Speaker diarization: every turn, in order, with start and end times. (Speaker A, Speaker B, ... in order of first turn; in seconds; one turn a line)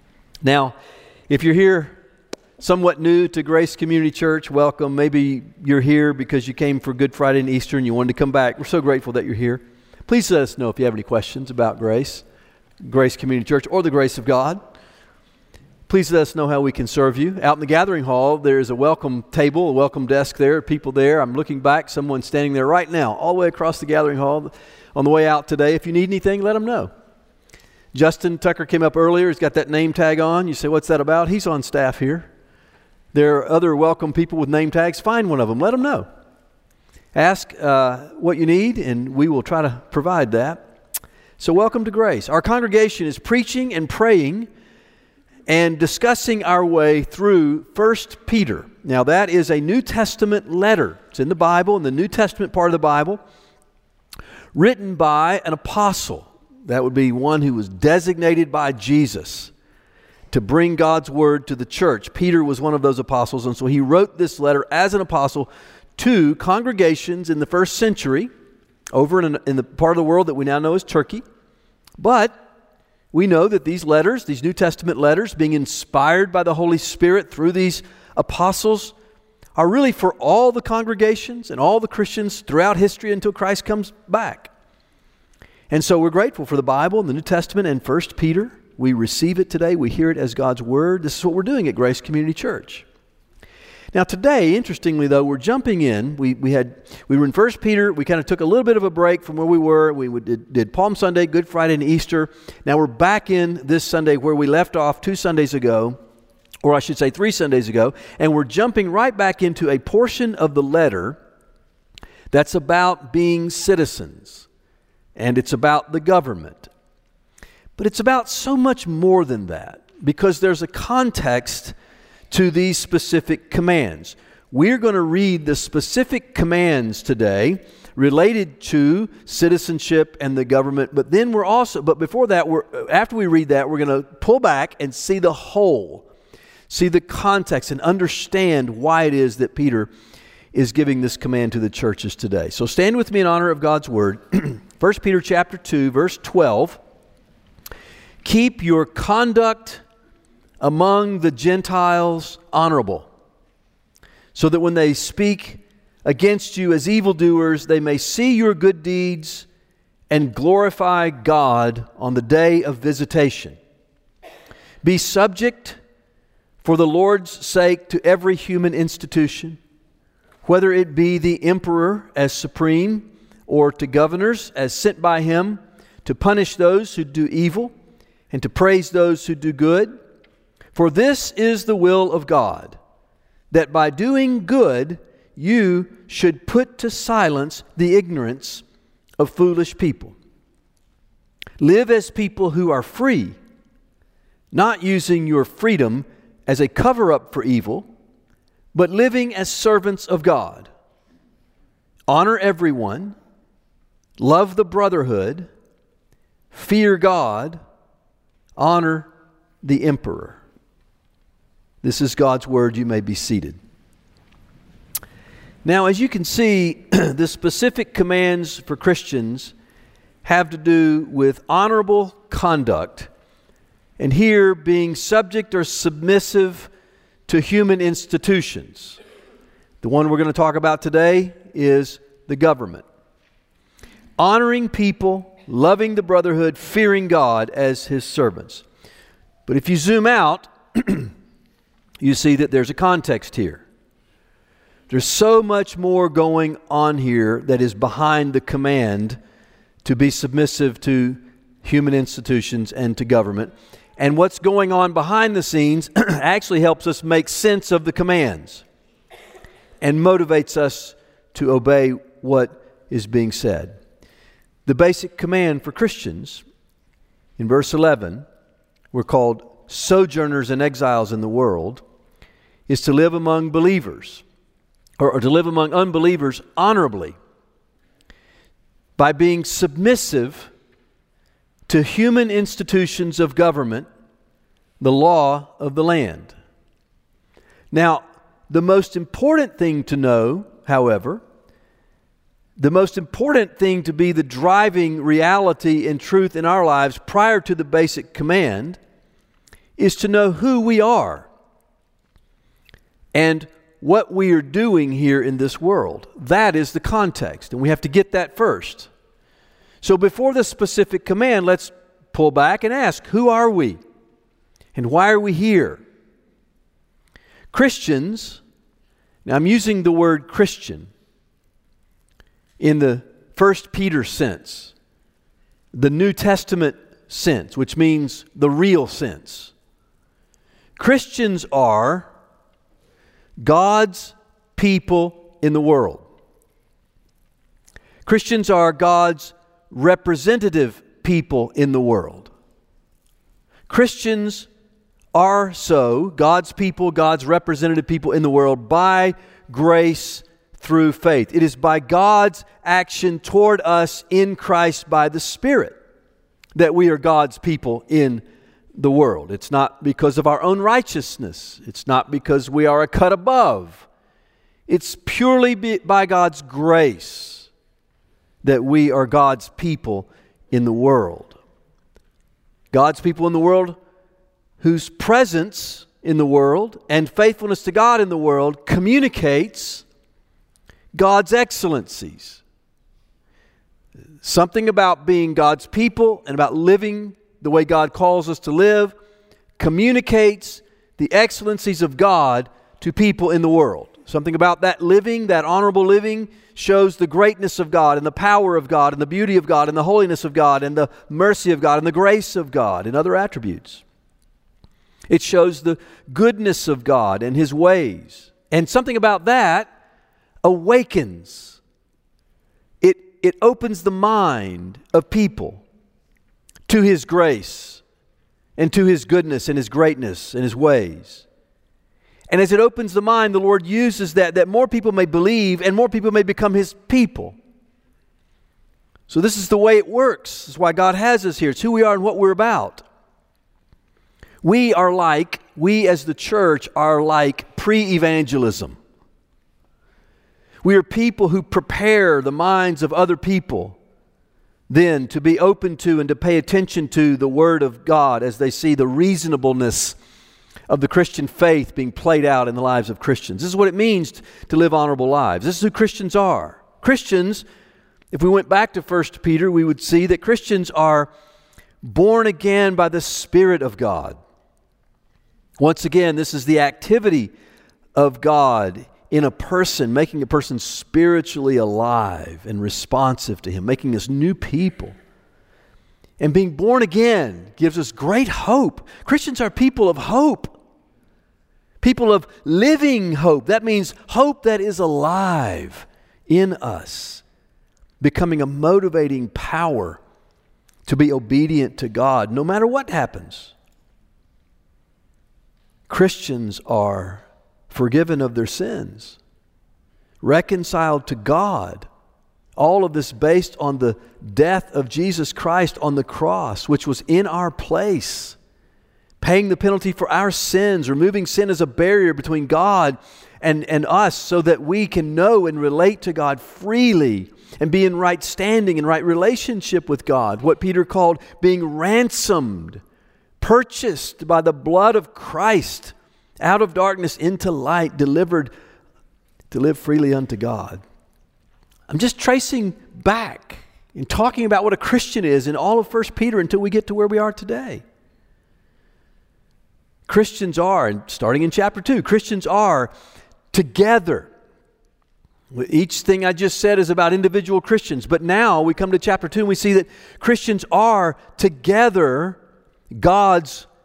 Speaker A: 0.4-0.8
Speaker A: 1.3-2.0
Speaker A: 2.6-12.2
Speaker A: 12.8-14.6
Speaker A: 15.9-26.9
Speaker A: 27.9-32.3
Speaker A: 33.1-36.0
Speaker A: 37.1-40.6
Speaker A: 41.4-44.5
Speaker A: 45.5-53.2
Speaker A: 54.5-59.5
Speaker A: 60.3-68.3
Speaker A: 68.9-71.2
Speaker A: 72.0-72.4
Speaker A: 73.1-78.9
Speaker A: 79.5-84.5
Speaker A: 85.7-92.8
Speaker A: 93.9-106.0
Speaker A: 106.6-111.2
Speaker A: 112.3-114.5
Speaker A: 115.2-116.7
Speaker A: 117.8-121.7
Speaker A: 122.3-136.1
Speaker A: 136.7-139.9
Speaker A: 140.5-146.8
Speaker A: 148.2-149.8
Speaker A: 150.6-153.1
Speaker A: 154.3-159.4
Speaker A: 160.1-163.6
Speaker A: 164.8-165.8
Speaker A: 166.6-169.6
Speaker A: 170.4-177.7
Speaker A: 178.3-179.9
Speaker A: 180.7-182.8
Speaker A: 183.5-188.6
Speaker A: 189.2-190.1
Speaker A: 191.6-193.3
Speaker A: 194.5-197.8
Speaker A: 198.7-200.7
Speaker A: 202.1-203.2
Speaker A: 204.2-205.5
Speaker A: 206.5-207.6
Speaker A: 208.6-209.1
Speaker A: 209.6-210.4
Speaker A: 211.8-213.6
Speaker A: 215.6-219.5
Speaker A: 220.2-223.1
Speaker A: 224.0-226.7
Speaker A: 227.3-229.0
Speaker A: 229.8-232.8
Speaker A: 234.2-238.6
Speaker A: 239.5-241.1
Speaker A: 242.0-243.6
Speaker A: 244.9-249.2
Speaker A: 249.8-258.6
Speaker A: 259.8-263.7
Speaker A: 264.6-266.4
Speaker A: 267.4-268.2
Speaker A: 268.9-271.8
Speaker A: 272.7-274.2
Speaker A: 275.0-277.1
Speaker A: 279.0-280.5
Speaker A: 281.7-283.9
Speaker A: 284.8-286.4
Speaker A: 287.7-291.2
Speaker A: 292.6-298.8
Speaker A: 299.8-301.3
Speaker A: 303.1-308.9
Speaker A: 309.8-313.8
Speaker A: 314.7-315.8
Speaker A: 317.5-318.4
Speaker A: 319.2-320.9
Speaker A: 322.6-324.7
Speaker A: 325.7-329.5
Speaker A: 330.8-332.1
Speaker A: 333.4-336.1
Speaker A: 338.0-342.3
Speaker A: 343.7-344.5
Speaker A: 345.1-355.8
Speaker A: 356.6-358.2
Speaker A: 358.7-363.9
Speaker A: 364.7-367.5
Speaker A: 368.4-371.4
Speaker A: 372.7-373.8
Speaker A: 374.6-379.8
Speaker A: 380.9-382.4
Speaker A: 384.2-388.9
Speaker A: 389.6-403.8
Speaker A: 405.1-409.7
Speaker A: 410.4-411.6
Speaker A: 412.8-415.6
Speaker A: 416.7-417.8
Speaker A: 418.6-421.2
Speaker A: 422.3-427.4
Speaker A: 429.1-432.8
Speaker A: 434.4-438.8
Speaker A: 440.6-443.8
Speaker A: 444.7-450.0
Speaker A: 450.7-457.4
Speaker A: 458.1-461.1
Speaker A: 461.8-464.2
Speaker A: 465.6-467.3
Speaker A: 467.9-474.9
Speaker A: 476.2-480.6
Speaker A: 481.8-487.2
Speaker A: 488.0-490.0
Speaker A: 490.9-493.5
Speaker A: 495.9-499.2
Speaker A: 500.2-501.9
Speaker A: 502.6-508.4
Speaker A: 509.2-522.8
Speaker A: 523.4-528.5
Speaker A: 529.5-530.8
Speaker A: 531.9-537.8
Speaker A: 540.0-542.9
Speaker A: 543.5-544.3
Speaker A: 545.5-552.4
Speaker A: 552.9-553.7